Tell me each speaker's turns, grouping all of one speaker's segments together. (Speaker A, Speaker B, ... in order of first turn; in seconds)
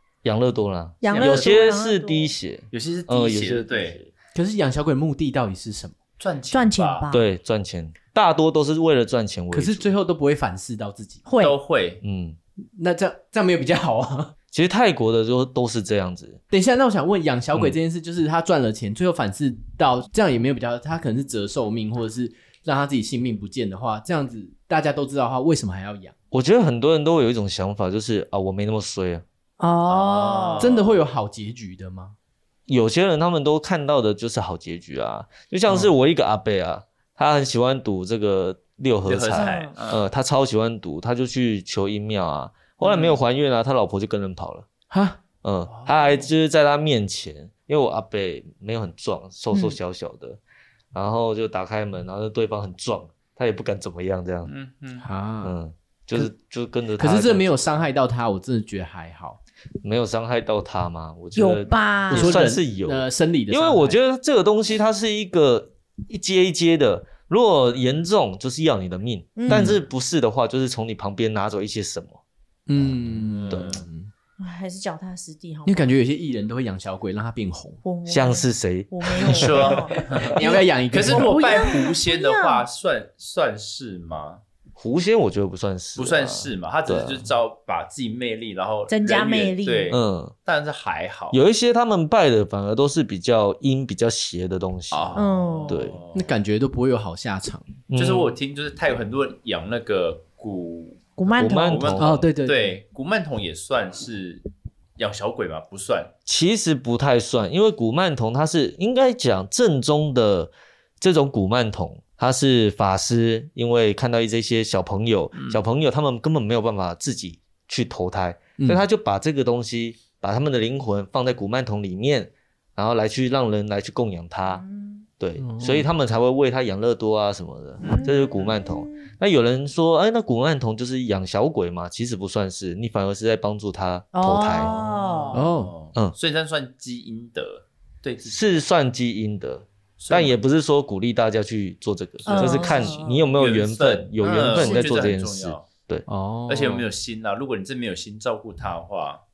Speaker A: 0.2-4.1, 7.1-9.9, 12.0-12.4, 14.5-16.4, 26.3-29.2, 32.7-44.7, 45.4-50.4, 50.9-54.5, 55.4-57.5, 59.8-72.2, 73.5-73.8, 78.1-80.0, 84.8-87.3, 89.9-90.3, 91.3-96.0, 97.9-98.3, 101.3-102.2, 106.2-124.6, 125.2-134.7, 138.2-146.1
Speaker B: 1.0-2.3, 6.5-7.2, 11.3-11.6, 29.6-30.7, 39.4-39.7, 61.4-62.4, 69.3-69.7, 74.4-75.9, 77.8-80.0, 81.0-82.7, 88.9-90.0, 95.2-95.8, 101.2-101.9, 124.5-125.0, 128.0-129.0, 134.1-135.4, 142.2-143.3, 144.5-144.9
Speaker C: 1.1-1.5, 2.7-4.0, 6.2-7.0, 11.4-12.0, 29.9-31.0, 39.0-40.0, 42.8-43.1, 45.7-46.1, 54.5-55.0, 73.2-73.8, 79.3-84.4, 86.0-91.4, 94.9-96.3, 97.9-101.0, 101.5-104.4, 105.0-106.1, 115.3-115.6, 127.8-128.1, 134.6-138.4, 140.0-140.3, 142.2-145.7, 146.5-149.2
Speaker D: 4.3-6.0, 9.5-11.2, 12.8-14.3, 16.5-26.1, 30.6-32.1, 44.9-45.2, 55.0-55.5, 57.0-59.4, 62.1-64.0, 69.5-69.8, 72.7-74.1, 75.7-77.8, 80.0-81.7, 96.1-97.8, 102.0-102.8, 125.4-125.9, 135.3-135.7, 146.1-146.8